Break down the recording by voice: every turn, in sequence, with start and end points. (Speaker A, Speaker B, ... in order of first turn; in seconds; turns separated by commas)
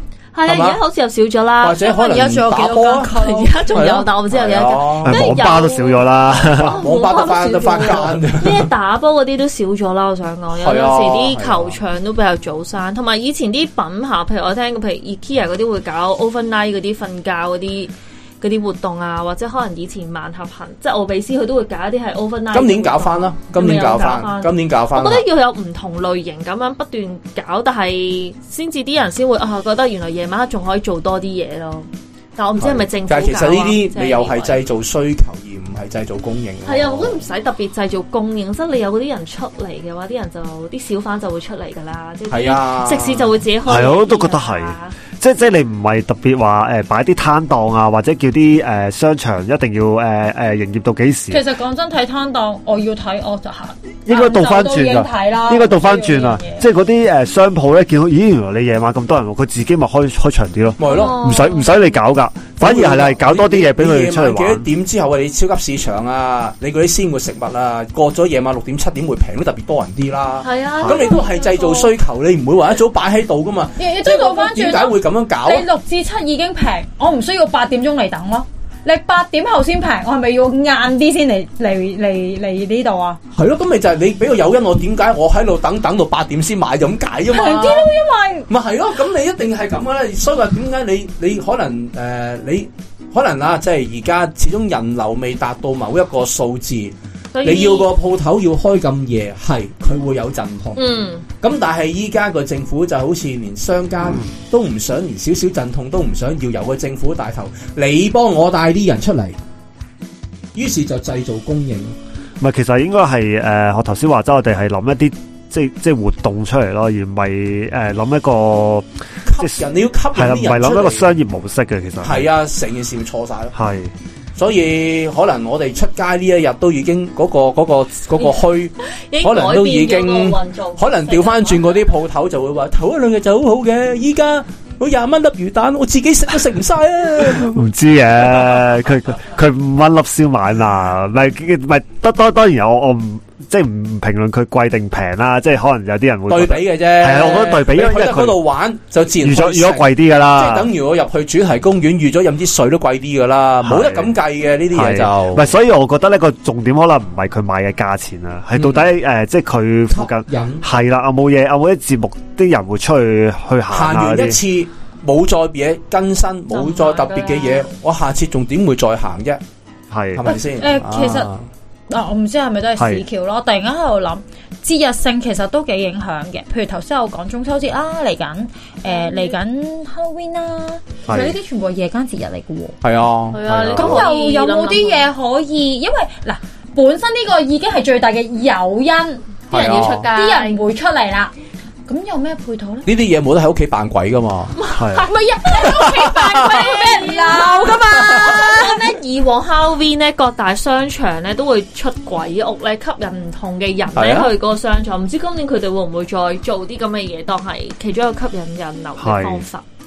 Speaker A: 0.3-34.6, Speaker B: 0.4-0.8, Speaker B: 1.6-5.4, Speaker C: 5.0-6.8, Speaker B: 6.4-8.7, Speaker B: 10.5-11.8, Speaker B: 22.5-25.3, Speaker B: 32.6-37.2, Speaker A: 36.6-44.9, Speaker B: 42.3-43.4, Speaker C: 43.6-51.4, Speaker D: 51.3-56.6, Speaker C: 54.0-64.6, Speaker B: 60.8-61.3, Speaker A: 60.8-61.7, Speaker B: 62.6-75.7, Speaker A: 70.4-71.9, Speaker D: 73.8-83.2, Speaker B: 83.3-87.9, Speaker D: 87.3-88.5, Speaker B: 88.5-100.8, Speaker A: 97.3-97.9, Speaker A: 100.8-101.2, Speaker B: 101.4-109.4, Speaker B: 110.5-111.9, Speaker C: 112.4-118.9, Speaker B: 119.2-121.1, Speaker C: 119.4-119.6, Speaker C: 120.1-122.3, Speaker B: 122.0-123.5, Speaker C: 123.5-123.9, Speaker B: 124.3-137.6, Speaker A: 129.0-131.8, Speaker C: 137.4-148.4, Speaker B: 146.3-155.4, Speaker C: 149.2-150.7, Speaker C: 153.6-154.2, Speaker C: 154.7-164.4, Speaker B: 158.6-158.8, Speaker B: 159.9-160.6, Speaker B: 163.7-169.4, Speaker A: 166.5-167.7, Speaker C: 169.9-170.2, Speaker B: 170.1-171.4, Speaker D: 170.2-171.3, Speaker D: 171.9-182.8, Speaker C: 172.8-173.0, Speaker A: 178.9-179.3, Speaker C: 181.1-181.3, Speaker B: 182.8-184.0, Speaker A: 183.3-185.1, Speaker C: 183.4-184.0, Speaker D: 183.8-189.3, Speaker B: 189.5-190.1, Speaker A: 189.5-190.6, Speaker D: 190.1-191.3, Speaker D: 191.9-192.9, Speaker B: 192.8-194.6, Speaker A: 194.6-209.6, Speaker C: 194.7-195.1, Speaker D: 195.0-198.8, Speaker B: 203.9-204.3, Speaker C: 209.0-209.4